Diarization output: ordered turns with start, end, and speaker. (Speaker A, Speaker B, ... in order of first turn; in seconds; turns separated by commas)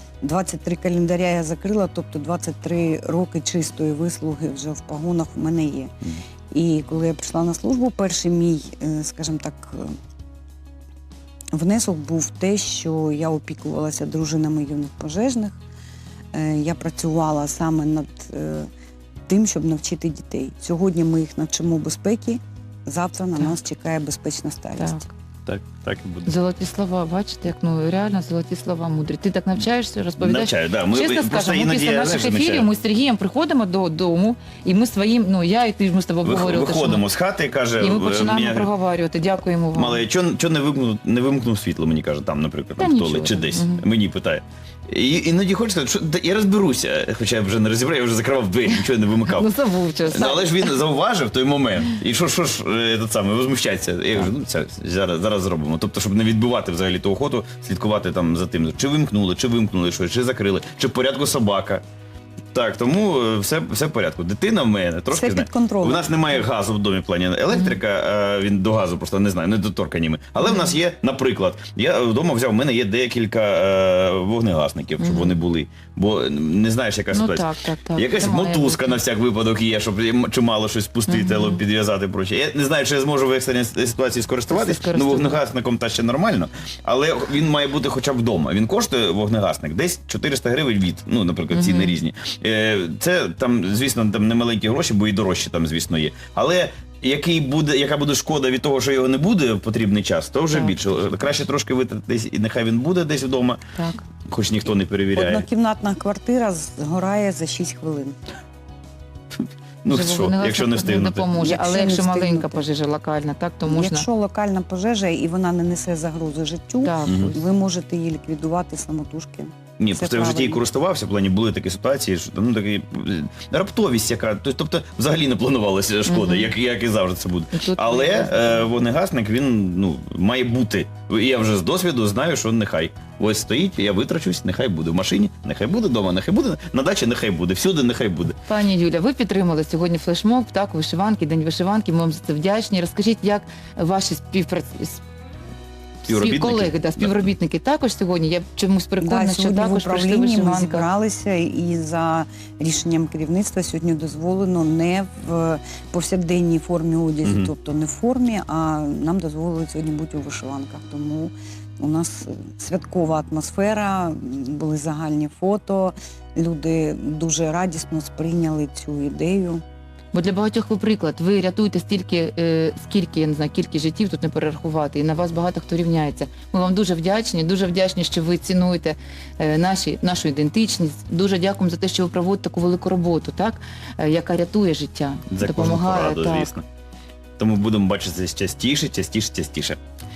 Speaker A: 0.2-5.9, Speaker A: 6.5-9.9, Speaker A: 11.5-15.6, Speaker A: 16.3-18.7, Speaker A: 19.3-25.1, Speaker B: 24.8-25.1, Speaker C: 25.4-26.3, Speaker B: 26.2-37.0, Speaker C: 30.2-32.7, Speaker C: 36.2-38.7, Speaker B: 37.8-40.0, Speaker C: 39.7-49.5, Speaker B: 42.8-43.8, Speaker B: 49.2-50.7, Speaker C: 50.1-61.8, Speaker C: 62.5-103.6, Speaker A: 65.1-66.1, Speaker B: 67.5-67.8, Speaker B: 70.4-70.8, Speaker B: 75.0-75.4, Speaker B: 77.1-79.0, Speaker B: 81.1-81.6, Speaker B: 84.5-85.4, Speaker B: 91.5-92.0, Speaker B: 100.5-101.2, Speaker B: 103.7-104.0, Speaker C: 104.3-105.4, Speaker A: 105.1-108.2, Speaker C: 109.3-111.4, Speaker B: 109.9-114.1, Speaker A: 111.4-112.6, Speaker A: 113.6-120.7, Speaker B: 116.8-117.5, Speaker C: 119.8-138.3, Speaker B: 126.0-126.5, Speaker B: 127.5-128.7, Speaker B: 138.5-145.0, Speaker B: 146.0-150.8, Speaker C: 146.1-147.3, Speaker A: 149.0-169.6, Speaker C: 157.2-157.5, Speaker B: 170.1-186.5, Speaker C: 185.3-186.6, Speaker C: 187.4-189.8